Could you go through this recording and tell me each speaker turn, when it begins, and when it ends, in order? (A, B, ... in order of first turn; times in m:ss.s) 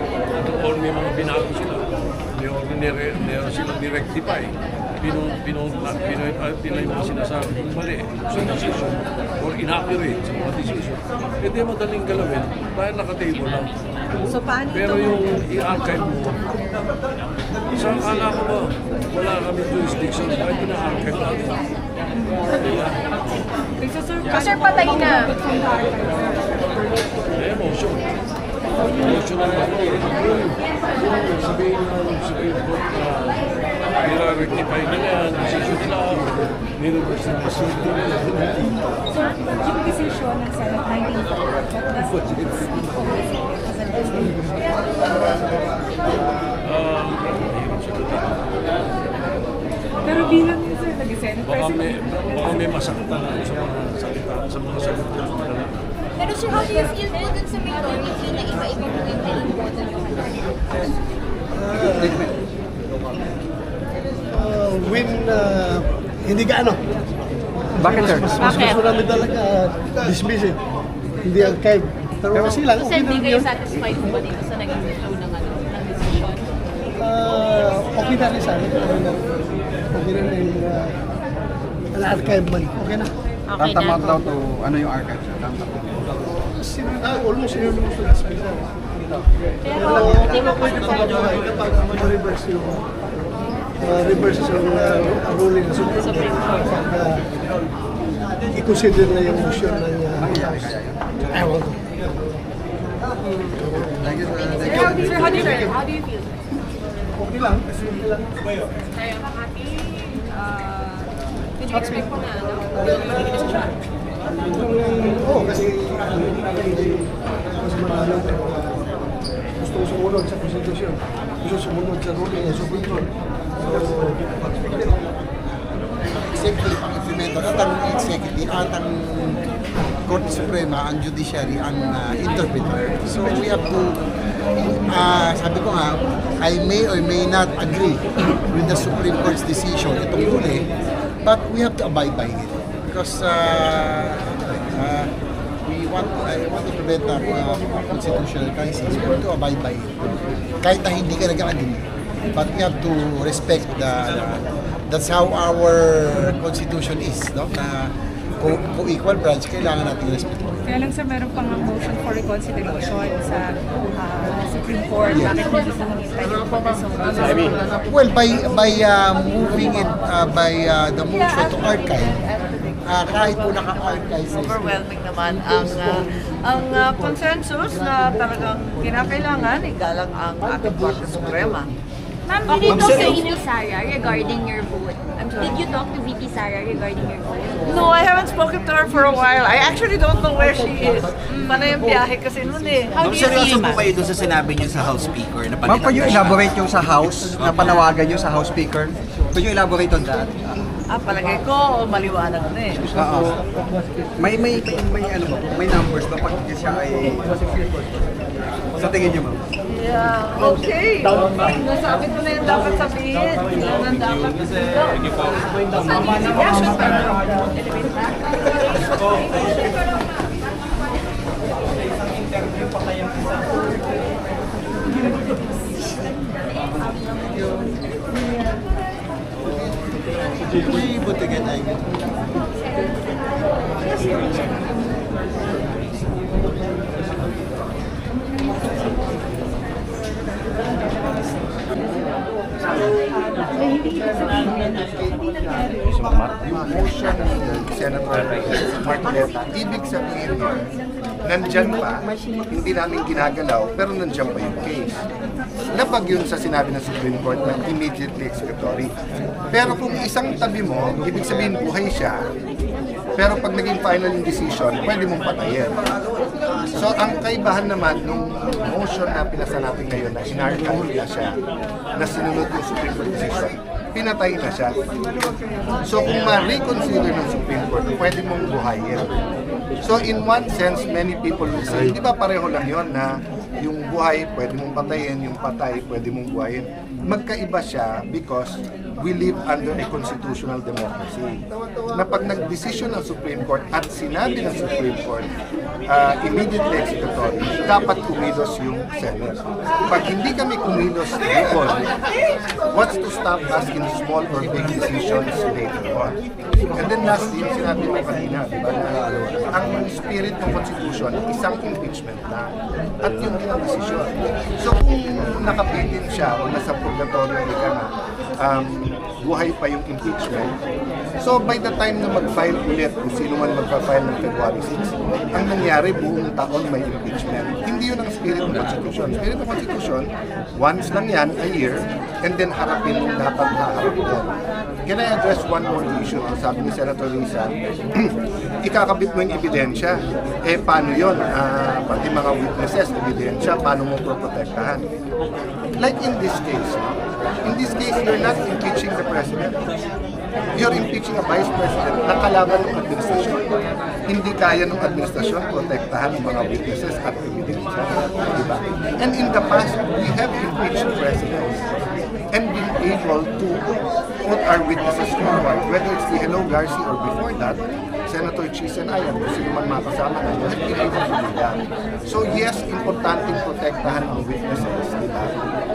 0:00.3-0:16.6 A
0:14.6-0:15.1 B
0:17.7-0:21.7 A
0:22.1-0:22.5 B
0:22.5-0:23.0 A
0:23.8-0:27.1 B
0:24.4-0:25.3 C
0:27.3-0:28.1 A
0:28.7-0:29.2 B
0:28.9-0:38.8 A
0:39.1-0:44.8 B
0:42.0-0:42.5 A
0:46.6-0:48.5 A
0:50.0-0:51.9 B
0:50.0-0:50.5 A
0:51.4-0:55.8 A
0:56.2-1:00.8 C
1:01.5-1:02.3 D
1:04.3-1:06.8 D
1:07.8-1:08.4 E
1:07.8-1:10.6 D
1:08.4-1:08.8 F
1:11.2-1:13.5 D
1:12.5-1:16.4 F
1:17.0-1:19.3 D
1:19.9-1:21.0 D
1:21.9-1:23.1 D
1:23.5-1:24.2 C
1:23.5-1:26.1 E
1:26.6-1:28.7 D
1:29.8-1:32.8 D
1:33.8-1:37.2 D
1:38.5-1:40.6 D
1:40.2-1:41.5 E
1:41.3-1:41.8 D
1:43.6-1:45.4 E
1:44.6-1:45.1 C
1:45.0-1:45.9 B
1:47.2-1:47.7 D
1:50.3-1:51.1 B
1:54.6-1:58.7 D
1:59.6-2:03.1 D
2:03.6-2:04.2 D
2:06.1-2:09.4 G
2:10.0-2:14.0 G
2:14.5-2:20.7 G
2:21.2-2:25.1 G
2:25.6-2:40.6 G
2:40.6-2:47.6 B
2:45.1-2:45.4 G
2:47.8-2:52.2 G
2:52.7-3:01.7 H
2:52.8-2:54.6 G
3:02.3-3:08.0 C
3:02.5-3:03.3 H
3:02.6-3:03.2 E
3:07.6-3:13.8 H
3:13.1-3:16.5 I
3:15.6-3:20.3 E
3:17.3-3:17.9 I
3:20.9-3:22.8 H
3:22.9-3:23.4 E
3:24.2-3:27.7 E
3:28.8-3:29.4 E
3:29.7-3:35.3 H
3:35.9-3:39.8 C
3:50.6-3:51.4 G
4:05.8-4:10.7 J
4:11.2-4:15.0 J
4:15.7-4:19.0 J
4:19.5-4:22.2 J
4:23.2-4:25.7 J
4:26.7-4:31.3 J
4:32.0-4:34.7 J
4:35.8-4:39.1 J
4:39.8-4:51.4 J
4:51.9-4:55.3 J
4:55.9-5:01.9 J
5:02.7-5:20.5 J
5:21.2-5:34.3 J
5:34.8-5:44.8 J
5:45.8-5:46.8 J
5:47.4-5:49.5 J
5:50.5-5:53.4 J
5:54.1-6:01.7 J
6:02.3-6:03.7 J
6:04.2-6:15.4 J